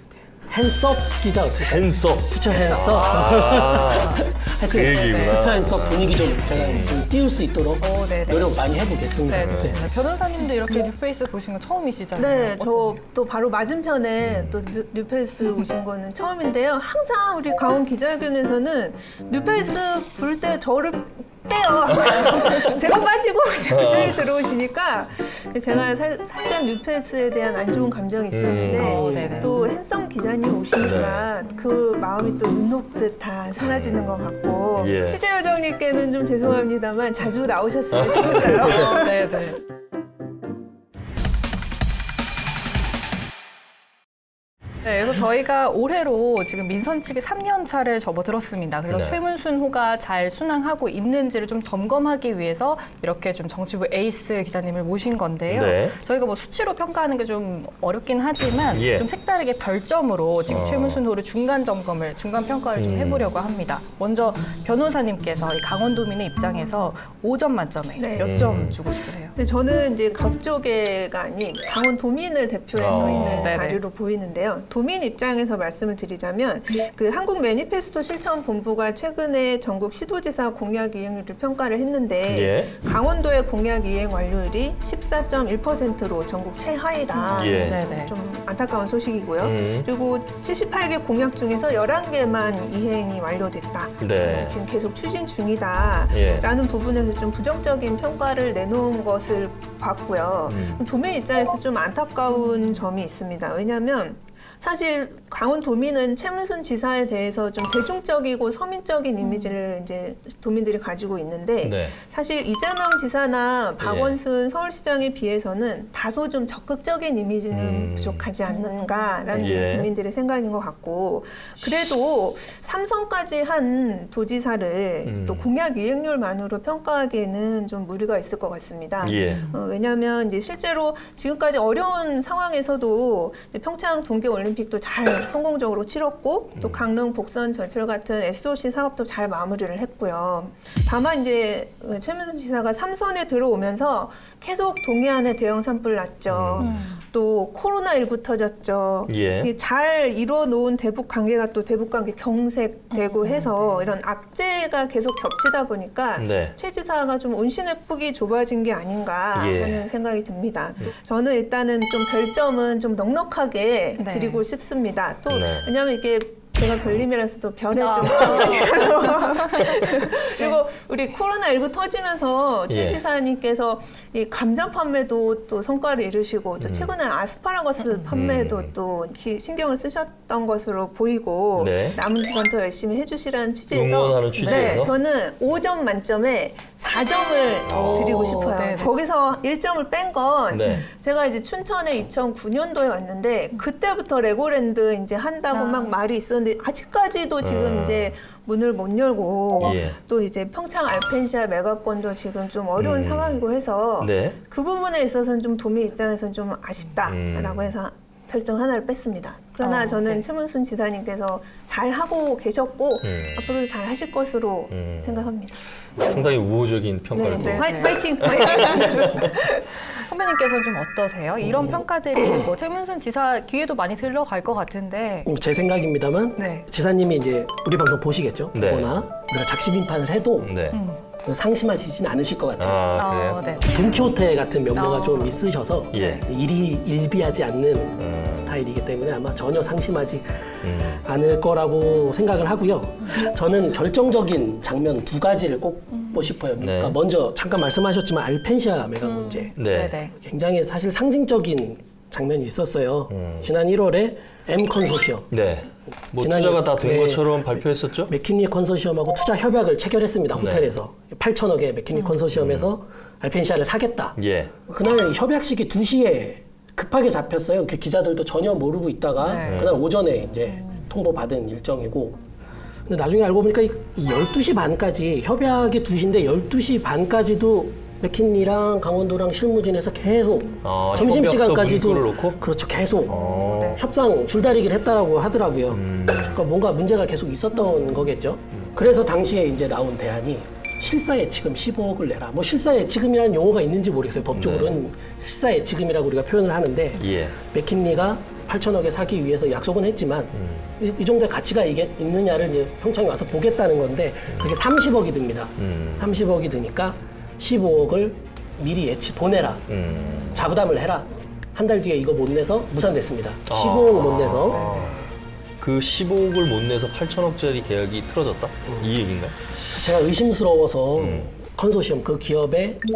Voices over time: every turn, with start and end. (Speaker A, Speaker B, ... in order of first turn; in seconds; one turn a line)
Speaker A: 0.5-9.8
Speaker B: 1.7-7.1
Speaker C: 3.1-4.2
Speaker C: 5.0-5.3
Speaker C: 7.8-13.0
Speaker B: 9.4-9.8
Speaker D: 12.2-39.1
Speaker B: 14.2-14.7
Speaker B: 22.1-22.6
Speaker B: 23.7-24.3
Speaker B: 28.3-29.1
Speaker C: 28.7-29.6
Speaker A: 28.8-29.7
Speaker B: 30.8-31.3
Speaker B: 33.6-34.2
Speaker B: 34.8-35.2
Speaker B: 37.9-39.0
Speaker C: 38.6-39.6
Speaker C: 44.8-69.3
Speaker B: 48.9-49.2
Speaker B: 55.5-56.0
Speaker B: 58.7-59.1
Speaker B: 60.5-61.0
Speaker B: 62.7-63.3
Speaker D: 68.0-68.3
Speaker B: 68.2-68.8
Speaker D: 69.3-215.6
Speaker B: 72.7-73.6
Speaker C: 72.9-73.8
Speaker B: 82.2-82.7
Speaker C: 87.1-88.1
Speaker B: 87.3-87.8
Speaker B: 89.4-89.9
Speaker B: 94.0-94.6
Speaker B: 96.1-96.5
Speaker B: 100.5-100.8
Speaker C: 102.4-102.8
Speaker C: 109.2-109.5
Speaker B: 111.6-112.0
Speaker B: 113.8-114.2
Speaker B: 117.5-118.3
Speaker C: 118.5-119.7
Speaker B: 119.3-119.9
Speaker B: 125.0-125.5
Speaker B: 129.0-129.4
Speaker C: 129.2-129.6
Speaker B: 136.6-136.8
Speaker B: 146.3-146.7
Speaker C: 146.6-147.0
Speaker B: 149.1-149.5
Speaker C: 152.9-153.9
Speaker B: 156.2-156.6
Speaker B: 159.3-159.9
Speaker C: 164.0-164.4
Speaker B: 165.3-165.7
Speaker C: 167.8-170.6
Speaker B: 168.0-168.7
Speaker B: 172.7-173.0
Speaker B: 176.6-176.9
Speaker C: 177.8-178.1
Speaker B: 178.1-178.7
Speaker B: 181.6-182.0
Speaker B: 183.7-184.9
Speaker C: 184.4-184.8
Speaker B: 187.6-188.4
Speaker C: 187.7-188.9
Speaker B: 190.5-190.8
Speaker C: 195.5-195.9
Speaker B: 197.4-198.2
Speaker B: 199.6-200.0
Speaker B: 202.8-203.4
Speaker B: 204.0-204.4
Speaker B: 207.0-207.7
Speaker C: 209.6-210.2
Speaker B: 213.0-213.5
Speaker B: 214.7-215.3
Speaker B: 216.0-219.0
Speaker D: 217.1-219.7
Speaker C: 217.3-219.1
Speaker C: 219.9-225.3
Speaker A: 221.4-222.5
Speaker A: 225.2-230.5
Speaker C: 226.4-226.7
Speaker B: 228.5-229.1
Speaker B: 230.4-230.8
Speaker C: 230.7-231.0
Speaker A: 231.2-232.9
Speaker B: 232.6-233.4
Speaker C: 232.9-233.8
Speaker A: 233.6-249.5
Speaker C: 234.7-235.4
Speaker B: 235.9-236.2
Speaker C: 235.9-236.2
Speaker B: 238.0-238.5
Speaker B: 240.6-241.0
Speaker B: 246.6-247.0
Speaker C: 249.3-250.1
Speaker B: 249.6-250.0
Speaker A: 250.1-255.3
Speaker B: 253.1-253.5
Speaker B: 255.3-258.1
Speaker A: 256.2-272.2
Speaker B: 260.3-260.7
Speaker B: 262.3-262.7
Speaker B: 264.1-264.5
Speaker C: 269.2-269.7
Speaker B: 269.4-269.8
Speaker A: 272.9-309.7
Speaker B: 280.6-282.4
Speaker B: 283.1-283.8
Speaker C: 283.1-283.8
Speaker B: 285.7-286.4
Speaker B: 294.3-294.8
Speaker B: 296.9-297.4
Speaker B: 300.3-300.7
Speaker B: 305.6-306.2
Speaker B: 309.7-310.5
Speaker A: 310.3-314.6
Speaker B: 313.4-315.1
Speaker C: 314.5-315.0
Speaker B: 315.6-319.4
Speaker A: 319.7-322.8
Speaker B: 320.9-321.3